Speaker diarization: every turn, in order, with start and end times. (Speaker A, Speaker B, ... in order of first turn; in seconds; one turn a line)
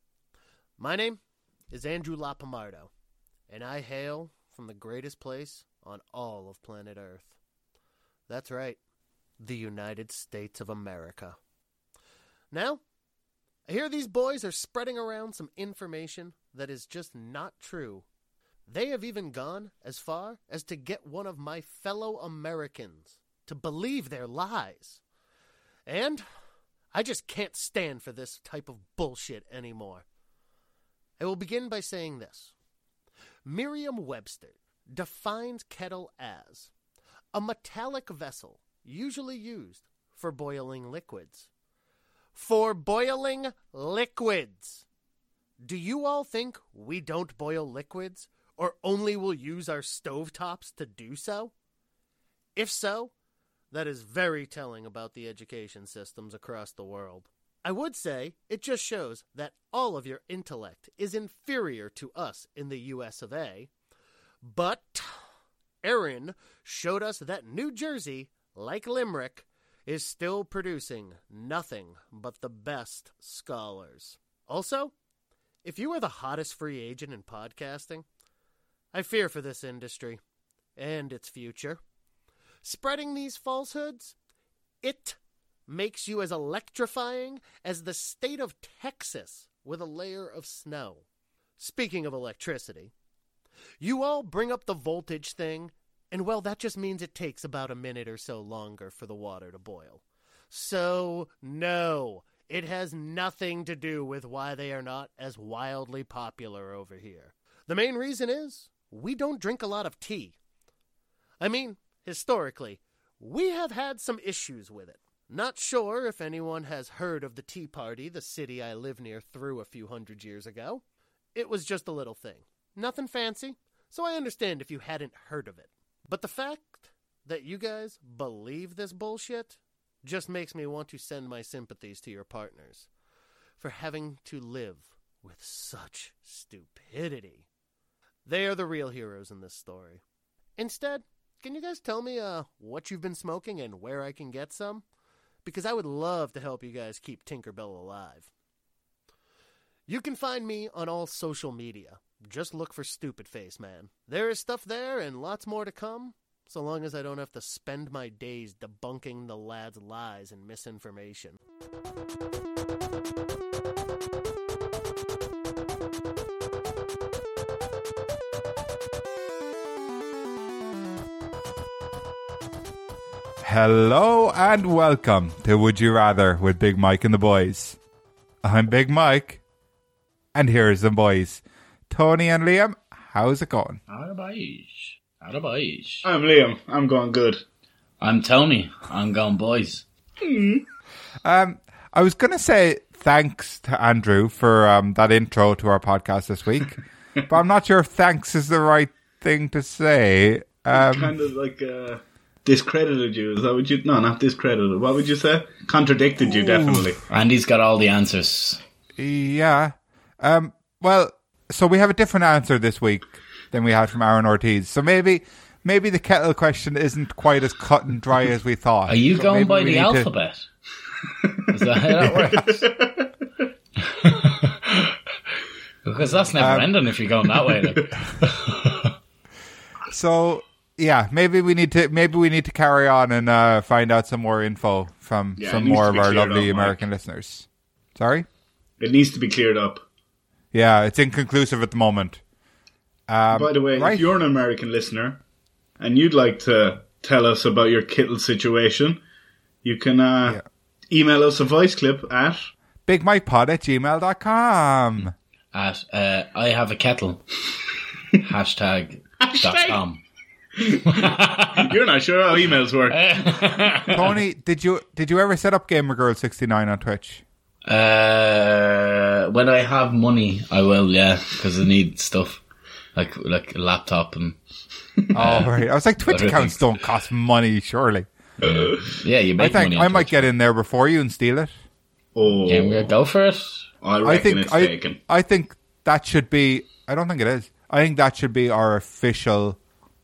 Speaker A: 0.8-1.2
Speaker A: 1.7-2.9
Speaker A: 3.5-7.4
Speaker A: 8.3-8.8
Speaker A: 9.4-11.4
Speaker A: 12.5-12.8
Speaker A: 13.7-18.1
Speaker A: 18.7-25.0
Speaker A: 25.9-26.2
Speaker A: 26.9-30.1
Speaker A: 31.2-32.5
Speaker A: 33.5-36.7
Speaker A: 37.3-41.5
Speaker A: 42.3-44.8
Speaker A: 45.6-51.5
Speaker A: 52.5-53.1
Speaker A: 53.7-63.7
Speaker A: 64.4-65.1
Speaker A: 65.8-74.9
Speaker A: 75.6-78.1
Speaker A: 78.9-80.2
Speaker A: 80.8-81.8
Speaker A: 82.6-84.2
Speaker A: 84.8-91.0
Speaker A: 91.6-92.9
Speaker A: 93.8-110.3
Speaker A: 111.4-120.8
Speaker A: 121.3-132.9
Speaker A: 133.6-137.5
Speaker A: 138.2-140.0
Speaker A: 140.6-144.8
Speaker A: 145.4-148.3
Speaker A: 149.9-161.4
Speaker B: 173.4-177.8
Speaker B: 178.4-179.4
Speaker B: 180.3-183.8
Speaker C: 183.9-186.1
Speaker D: 186.0-187.4
Speaker C: 188.0-189.8
Speaker D: 190.2-190.6
Speaker B: 191.2-196.8
Speaker B: 197.3-201.1
Speaker D: 200.7-207.0
Speaker B: 206.2-206.9
Speaker C: 207.1-208.6
Speaker B: 209.0-220.1
Speaker C: 218.9-220.4
Speaker C: 221.5-222.7
Speaker D: 222.0-223.1
Speaker B: 222.0-222.5
Speaker C: 223.9-224.9
Speaker C: 225.8-228.9
Speaker B: 226.4-226.7
Speaker B: 229.9-238.3
Speaker D: 235.4-236.8
Speaker D: 238.8-239.8
Speaker B: 240.5-242.2
Speaker B: 243.1-244.1
Speaker D: 243.3-245.2
Speaker D: 245.8-249.0
Speaker D: 249.6-252.5
Speaker B: 252.9-255.1
Speaker C: 255.5-257.2
Speaker C: 258.2-260.0
Speaker D: 259.2-259.8
Speaker D: 260.6-263.9
Speaker C: 260.8-261.7
Speaker C: 262.9-264.1
Speaker B: 263.9-267.2
Speaker C: 267.6-272.4
Speaker C: 272.9-274.4
Speaker C: 275.1-276.7
Speaker B: 275.1-278.1
Speaker C: 278.4-280.2
Speaker B: 279.4-281.5
Speaker D: 282.1-282.9
Speaker C: 282.4-283.7
Speaker D: 283.8-285.0
Speaker B: 284.0-289.6